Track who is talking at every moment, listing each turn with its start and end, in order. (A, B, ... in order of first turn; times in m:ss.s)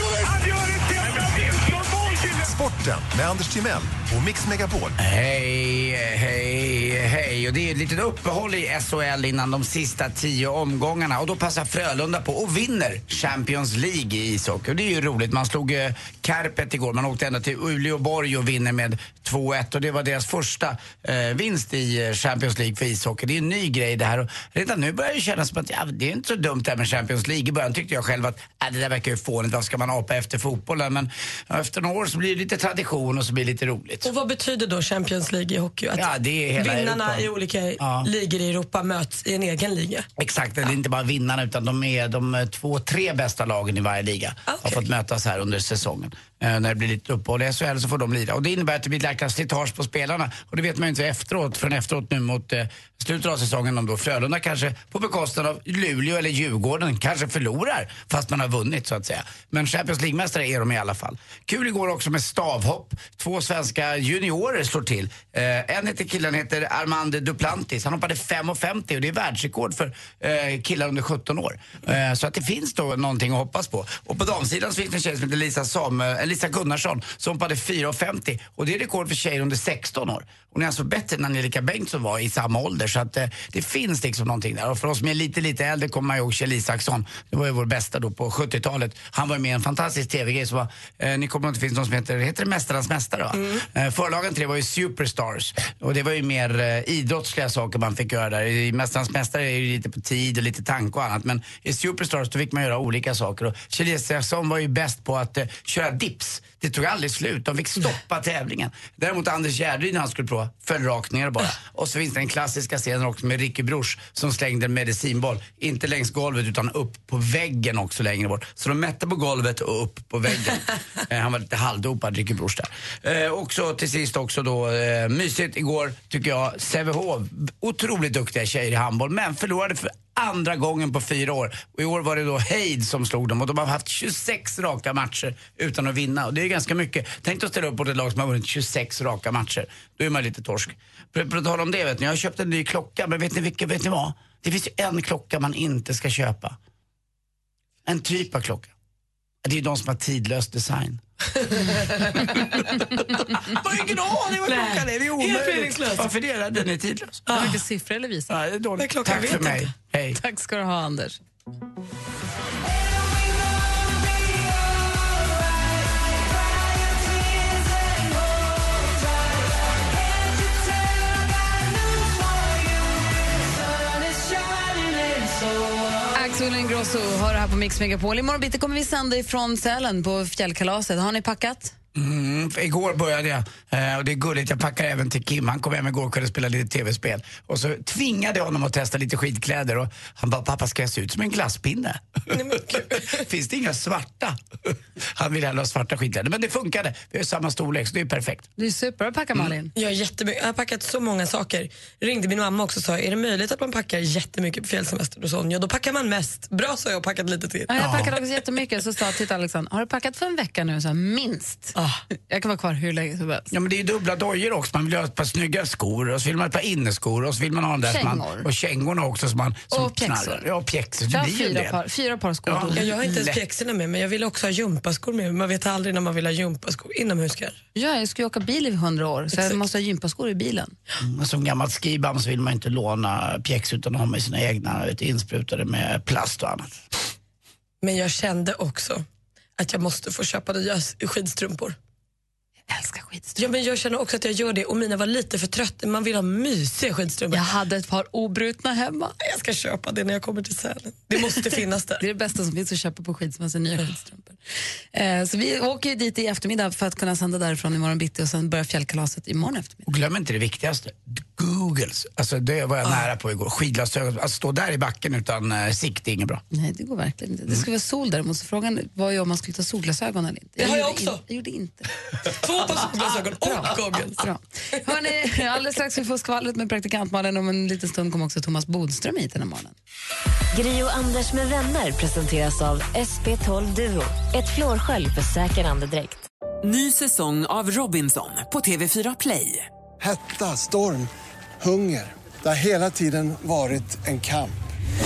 0:01.9-0:05.0 A
0:05.0-0:34.1 B
0:34.0-0:40.1 C
0:36.0-0:38.1 B
0:40.2-2:26.6 B
0:44.5-0:44.8 C
1:33.3-1:33.6 C
2:27.8-2:28.7 B
2:29.4-2:31.0 B
2:33.4-2:37.4 B
2:33.6-2:36.1 C
2:37.3-2:37.6 C
2:37.3-2:38.3 D
2:38.3-2:40.2 B
2:38.8-2:39.6 C
2:40.1-2:41.2 D
2:56.1-3:01.7 D
3:01.9-3:18.5 B
3:12.3-3:13.3 C
3:18.6-3:19.7 D
3:19.7-3:27.7 C
3:27.7-3:33.5 D
3:27.8-3:28.1 B
3:33.5-3:41.8 B
3:37.8-3:38.5 D
3:39.7-3:40.4 D
3:41.1-3:43.4 D
3:42.4-3:42.9 B
3:42.7-3:47.6 C
3:47.7-3:50.7 D
3:51.0-3:56.8 B
3:57.8-3:59.0 C
3:59.6-4:01.8 C
4:02.7-4:03.4 D
4:03.4-4:07.4 C
4:07.3-4:09.1 D
4:09.2-4:12.0 C
4:12.0-4:14.4 D
4:14.9-4:19.8 D
4:19.8-4:26.4 B
4:26.5-4:31.9 D
4:30.6-4:31.2 C
4:32.2-4:34.2 C
4:33.2-4:39.7 D
4:40.5-4:46.2 E
4:46.6-4:49.7 F
4:50.0-4:54.5 G